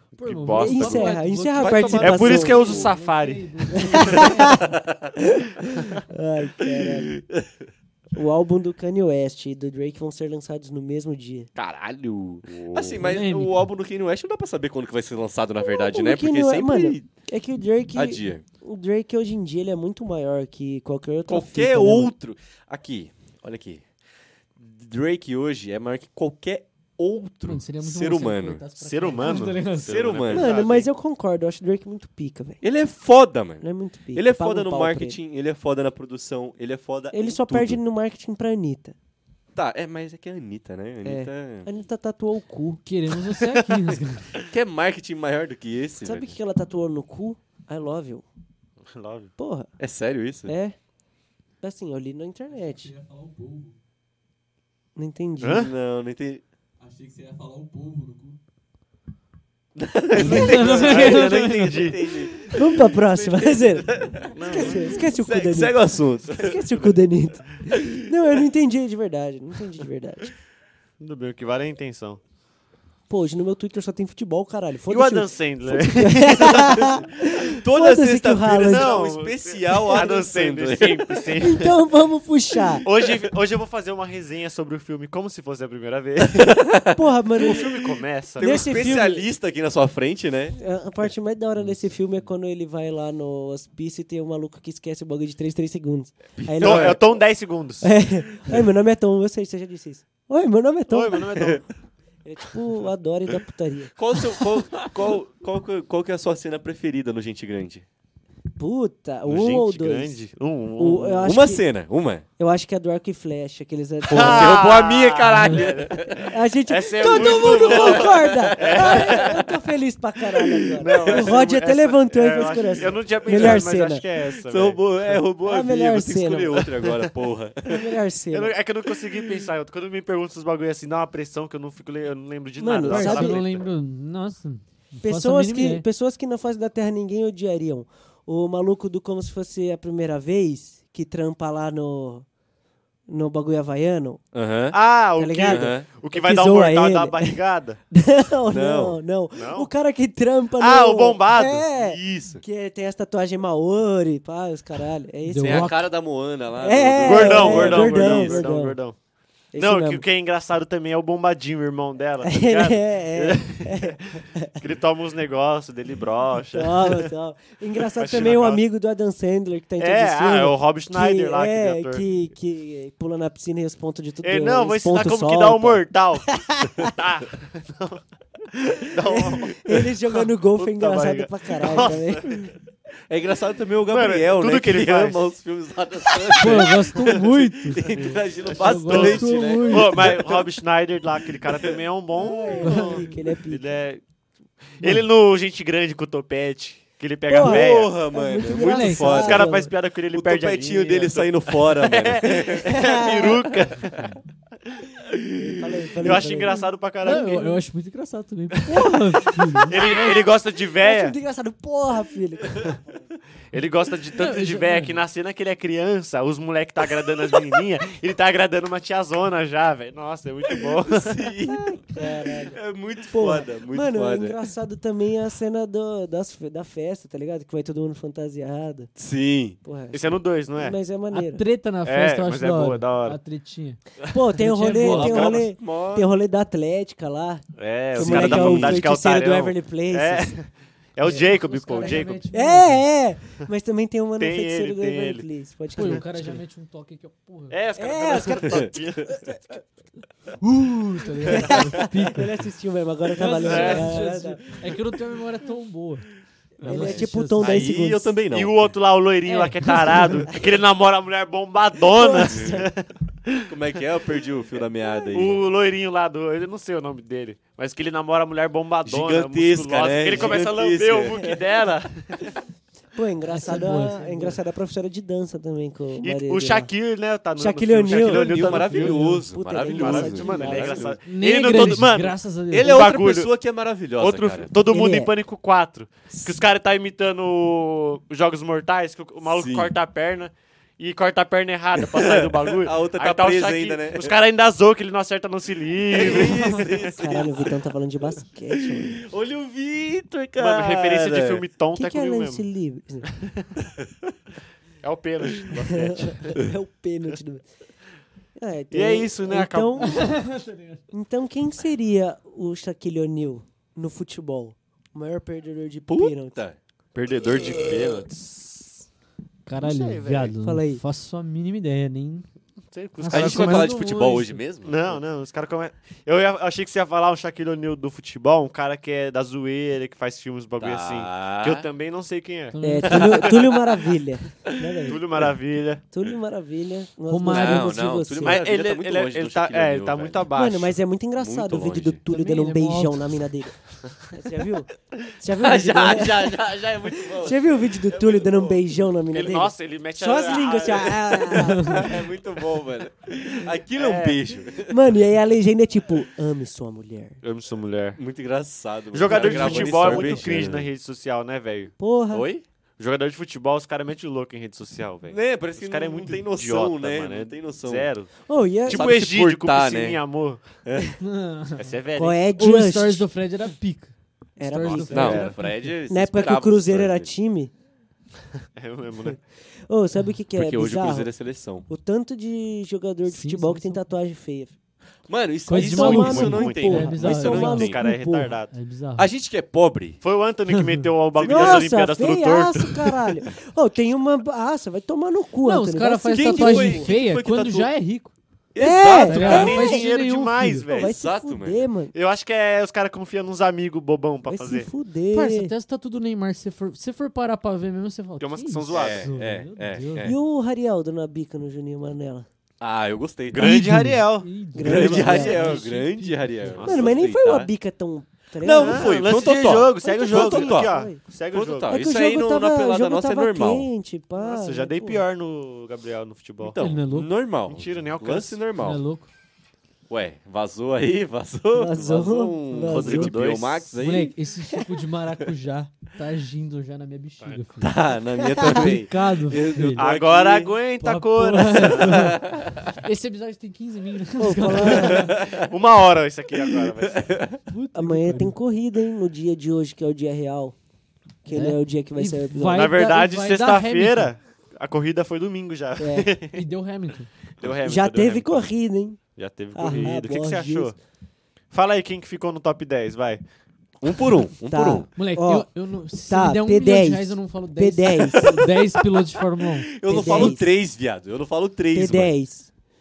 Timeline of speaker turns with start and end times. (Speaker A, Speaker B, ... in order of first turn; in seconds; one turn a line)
Speaker A: 0.1-1.1
Speaker B: 0.2-4.7
Speaker C: 0.6-2.7
Speaker D: 1.6-2.9
Speaker A: 2.0-4.2
Speaker C: 3.7-4.7
Speaker D: 4.1-5.1
Speaker C: 5.2-7.1
Speaker D: 6.7-7.7
Speaker C: 8.1-11.5
Speaker D: 11.6-17.1
Speaker A: 12.5-13.1
Speaker B: 13.0-13.7
Speaker C: 15.7-22.1
Speaker D: 17.9-18.4
Speaker D: 21.3-23.8
Speaker D: 24.6-28.6
Speaker B: 27.4-30.1
Speaker A: 28.8-30.9
Speaker D: 29.3-30.7
Speaker C: 30.3-32.6
Speaker D: 32.6-37.8
Speaker C: 33.6-35.2
Speaker C: 37.1-38.9
Speaker D: 39.5-41.7
Speaker C: 41.0-42.8
Speaker B: 42.8-44.4
Speaker D: 44.4-46.4
Speaker C: 46.0-48.2
Speaker A: 48.9-49.3
Speaker C: 49.4-49.7
Speaker D: 49.8-50.5
Speaker C: 50.5-50.8
Speaker C: 51.6-52.9
Speaker D: 52.8-53.7
Speaker C: 55.0-55.7
Speaker A: 55.4-55.7
Speaker D: 55.4-58.4
Speaker D: 59.7-66.9
Speaker A: 60.1-62.1
Speaker B: 60.2-62.2
Speaker C: 62.5-70.3
Speaker A: 64.3-64.9
Speaker D: 67.7-68.0
Speaker A: 71.0-72.2
Speaker C: 73.1-79.0
Speaker A: 74.9-76.9
Speaker D: 77.4-81.7
Speaker A: 78.7-81.7
Speaker C: 81.4-82.8
Speaker A: 82.8-86.6
Speaker D: 82.8-83.1
Speaker D: 86.2-90.6
Speaker C: 86.9-87.7
Speaker A: 87.4-88.6
Speaker C: 88.4-89.2
Speaker C: 90.6-97.0
Speaker D: 96.4-97.0
Speaker A: 96.6-97.9
Speaker C: 97.8-101.5
Speaker A: 100.9-101.7
Speaker C: 102.2-104.3
Speaker D: 104.0-107.8
Speaker C: 108.6-110.2
Speaker A: 109.3-111.3
Speaker C: 110.8-111.7
Speaker D: 111.2-112.2
Speaker C: 112.4-114.6
Speaker D: 114.1-116.3
Speaker A: 114.1-119.4
Speaker B: 115.3-115.6
Speaker C: 116.2-124.0
Speaker D: 117.0-119.4
Speaker D: 120.4-121.3
Speaker A: 120.8-125.2
Speaker D: 123.2-123.7
Speaker D: 124.4-127.9
Speaker C: 125.4-126.6
Speaker C: 127.7-128.5
Speaker A: 128.3-133.6
Speaker C: 132.6-133.4
Speaker B: 132.8-135.8
Speaker C: 135.0-142.3
Speaker C: 143.1-144.2
Speaker D: 144.3-144.8
Speaker A: 144.7-147.8
Speaker C: 145.2-147.4
Speaker D: 145.4-145.9
Speaker C: 147.9-155.7
Speaker D: 148.5-149.0
Speaker A: 149.3-149.7
Speaker A: 150.6-151.7
Speaker D: 151.7-152.4
Speaker B: 155.2-155.8
Speaker D: 155.4-158.5
Speaker C: 156.6-158.8
Speaker A: 157.0-158.9
Speaker C: 159.5-160.0
Speaker A: 159.6-167.1
Speaker C: 162.2-164.5
Speaker C: 166.5-176.9
Speaker A: 167.9-168.6
Speaker A: 169.8-172.0
Speaker A: 174.2-182.5
Speaker C: 179.0-182.3
Speaker D: 183.1-190.5
Speaker A: 183.9-185.3
Speaker A: 186.1-187.1
Speaker B: 186.4-190.2
Speaker A: 188.4-194.0
Speaker D: 191.4-191.8
Speaker C: 192.2-193.6
Speaker B: 192.6-193.2
Speaker A: 194.7-197.9
Speaker C: 197.3-199.7
Speaker D: 197.4-199.5
Speaker B: 198.6-199.1
Speaker A: 199.0-204.1
Speaker D: 200.1-203.5
Speaker C: 202.6-203.4
Speaker C: 205.4-206.7
Speaker A: 206.0-207.6
Speaker B: 207.0-209.8
Speaker A: 208.7-208.9
Speaker A: 209.6-211.1
Speaker C: 209.7-212.8
Speaker A: 213.5-221.3
Speaker B: 214.1-215.0
Speaker D: 220.5-224.4
Speaker C: 221.4-222.6
Speaker C: 223.1-228.9
Speaker D: 228.9-229.6
Speaker C: 229.6-231.4
Speaker A: 229.9-230.8
Speaker B: 231.1-233.8
Speaker A: 231.8-233.2
Speaker C: 234.1-240.3
Speaker B: 234.3-235.4
Speaker D: 234.8-236.1
Speaker A: 237.6-242.2
Speaker D: 237.9-238.8
Speaker B: 241.1-242.8
Speaker C: 242.3-246.4
Speaker A: 244.2-245.2
Speaker B: 245.8-247.6
Speaker A: 247.5-249.2
Speaker C: 247.8-249.4
Speaker B: 250.4-252.4
Speaker C: 251.3-254.5
Speaker B: 253.2-256.1
Speaker A: 253.4-254.0
Speaker B: 256.6-257.6
Speaker C: 256.6-258.1
Speaker D: 256.6-258.6
Speaker A: 258.3-263.5
Speaker B: 259.2-260.4
Speaker C: 261.9-262.7
Speaker D: 262.3-262.6
Speaker D: 263.5-265.4
Speaker A: 265.1-272.3
Speaker D: 268.8-271.4
Speaker C: 272.9-276.7
Speaker B: 273.3-274.4
Speaker A: 276.0-283.3
Speaker C: 277.4-280.9
Speaker D: 277.9-281.0
Speaker B: 278.5-279.2
Speaker B: 281.1-282.8
Speaker D: 282.5-284.5
Speaker A: 284.0-296.9
Speaker C: 284.7-285.1
Speaker D: 289.2-289.7
Speaker D: 291.8-294.1
Speaker D: 295.9-297.5
Speaker C: 296.9-299.0
Speaker D: 298.6-301.4
Speaker A: 300.4-302.4
Speaker C: 301.7-303.1
Speaker A: 303.1-303.5
Speaker D: 303.8-304.1
Speaker A: 304.8-306.4
Speaker C: 305.7-307.4
Speaker C: 308.4-310.1
Speaker A: 308.7-310.1
Speaker B: 309.8-310.8
Speaker C: 310.9-316.4
Speaker D: 315.9-316.6
Speaker A: 316.9-318.8
Speaker B: 319.4-322.3
Speaker A: 319.6-320.3
Speaker C: 320.4-320.8
Speaker A: 322.7-323.8
Speaker B: 323.0-324.4
Speaker D: 323.1-325.0
Speaker A: 324.6-333.1
Speaker D: 330.6-331.6
Speaker B: 332.5-333.4
Speaker C: 332.6-335.0
Speaker D: 332.9-333.4
Speaker D: 334.7-335.2
Speaker A: 334.9-335.8
Speaker C: 335.9-338.4
Speaker B: 337.1-337.8
Speaker D: 337.3-340.3
Speaker A: 338.2-340.8
Speaker C: 340.3-346.4
Speaker D: 341.2-342.0
Speaker B: 342.1-343.2
Speaker D: 345.3-348.6
Speaker C: 347.1-352.0
Speaker A: 349.1-351.3
Speaker D: 351.3-354.9
Speaker B: 351.4-351.9
Speaker A: 353.7-354.2
Speaker C: 354.7-357.2
Speaker A: 357.2-358.0
Speaker D: 357.9-360.7
Speaker A: 358.9-361.7
Speaker B: 359.1-360.1
Speaker C: 359.2-360.0
Speaker C: 361.8-362.3
Speaker D: 362.1-362.4
Speaker A: 362.8-368.1
Speaker D: 365.1-367.9
Speaker C: 368.3-368.8
Speaker A: 368.6-370.4
Speaker D: 368.6-370.0
Speaker D: 370.6-370.9
Speaker B: 371.0-371.7
Speaker A: 371.6-372.2
Speaker C: 371.9-373.1
Speaker B: 372.3-375.7
Speaker C: 374.4-377.5
Speaker A: 374.6-375.3
Speaker D: 374.9-377.1
Speaker A: 378.6-379.2
Speaker C: 379.7-381.1
Speaker D: 380.3-381.7
Speaker C: 381.7-384.5
Speaker B: 383.1-383.8
Speaker D: 385.1-387.8
Speaker B: 385.5-387.9
Speaker C: 385.5-388.3
Speaker A: 386.1-388.5
Speaker B: 388.5-389.1
Speaker D: 388.9-390.0
Speaker A: 390.0-392.9
Speaker B: 390.5-390.9
Speaker D: 391.2-391.7
Speaker C: 391.2-396.9
Speaker B: 395.4-398.1
Speaker D: 396.1-397.7
Speaker D: 398.5-399.7
Speaker C: 398.6-399.8
Speaker B: 399.0-400.6
Speaker A: 399.1-400.9
Speaker C: 400.7-401.9
Speaker D: 400.7-401.7
Speaker A: 401.9-404.7
Speaker C: 404.3-405.5
Speaker B: 405.1-410.1
Speaker A: 408.2-409.1
Speaker D: 408.7-410.2
Speaker C: 410.0-412.3
Speaker D: 412.6-413.5
Speaker A: 413.3-414.3
Speaker B: 413.4-416.6
Speaker C: 414.5-415.6
Speaker D: 414.6-417.5
Speaker A: 414.8-415.5
Speaker A: 416.5-416.9
Speaker C: 416.6-419.1
Speaker D: 418.4-423.7
Speaker A: 418.6-421.7
Speaker C: 419.8-421.0
Speaker C: 421.7-425.0
Speaker A: 424.2-426.6
Speaker D: 426.4-428.8
Speaker B: 426.6-427.1
Speaker A: 427.5-428.4
Speaker B: 428.6-429.1
Speaker D: 429.9-434.1
Speaker C: 431.5-433.2
Speaker A: 432.7-433.7
Speaker B: 433.8-437.8
Speaker D: 437.6-440.6
Speaker C: 438.3-438.7
Speaker B: 438.4-439.9
Speaker A: 439.8-442.1
Speaker B: 440.8-445.2
Speaker D: 441.6-442.7
Speaker C: 444.2-445.1
Speaker D: 444.8-445.5
Speaker A: 445.3-447.1
Speaker D: 446.3-447.4
Speaker B: 447.5-448.4
Speaker C: 447.7-450.6
Speaker C: 451.2-452.7
Speaker B: 451.3-454.1
Speaker A: 452.5-456.4
Speaker C: 455.8-456.1
Speaker B: 456.3-457.1
Speaker A: 457.4-458.5
Speaker C: 457.6-459.0
Speaker A: 459.1-460.8
Speaker C: 459.5-460.7
Speaker A: 461.5-463.2
Speaker D: 463.8-464.9
Speaker C: 464.5-468.4
Speaker B: 464.9-470.3
Speaker D: 468.4-469.0
Speaker D: 469.7-472.1
Speaker C: 469.9-470.5
Speaker C: 471.7-472.5